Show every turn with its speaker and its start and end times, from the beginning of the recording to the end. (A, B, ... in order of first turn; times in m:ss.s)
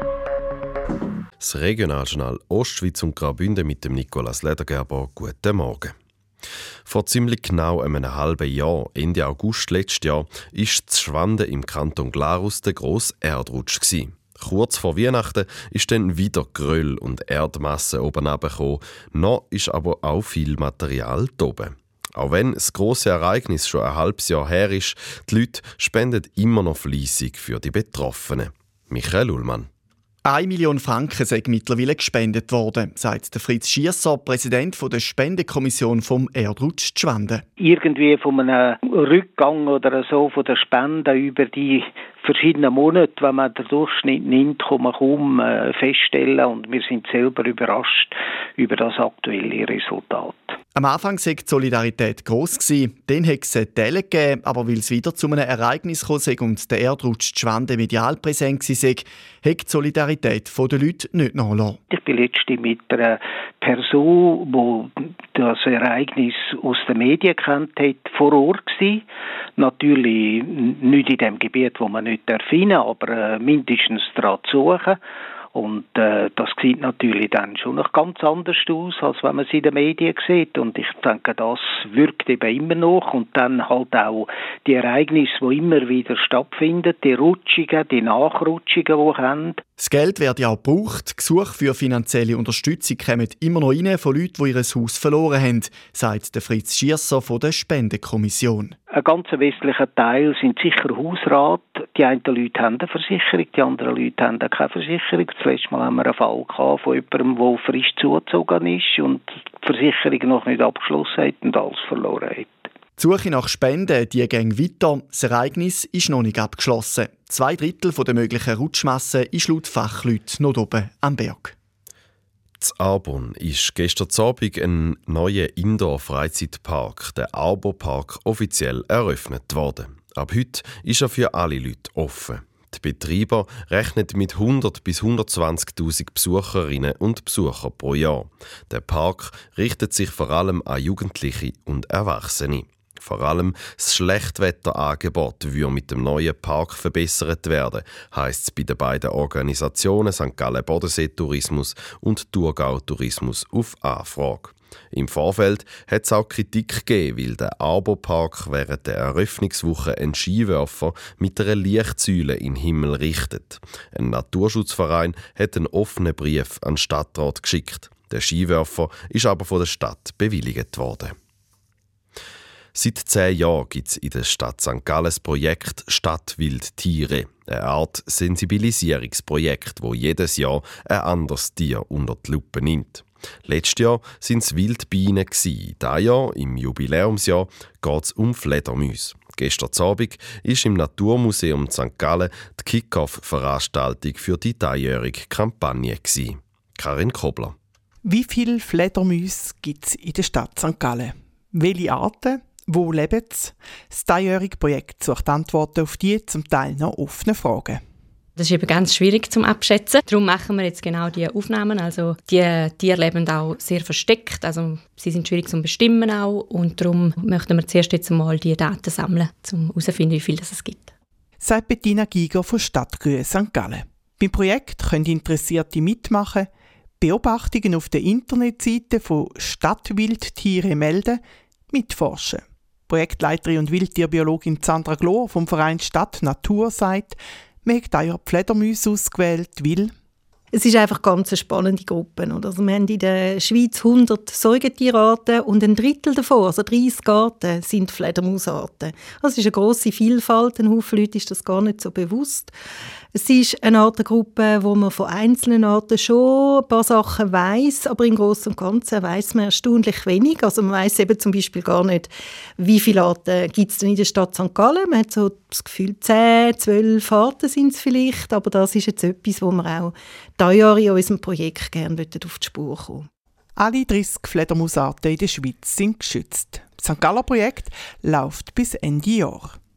0:01.4-0:05.9 A
0:06.9-0:29.7 A
0:30.2-0:37.4 B
0:37.6-0:50.6 C
0:50.8-1:01.8 B
1:01.9-1:09.0 C
1:09.6-1:15.0 C
1:15.5-1:29.6 C
1:29.8-1:38.8 B
1:38.9-1:52.5 C
1:53.0-2:01.5 B
2:02.6-2:51.2 A
2:52.7-3:17.6 A
3:18.0-3:27.8 D
3:28.4-3:40.9 E
3:41.4-3:46.5 D
3:47.0-3:59.9 D
4:00.5-4:12.5 F
4:13.1-4:33.1 F
4:33.6-4:39.6 D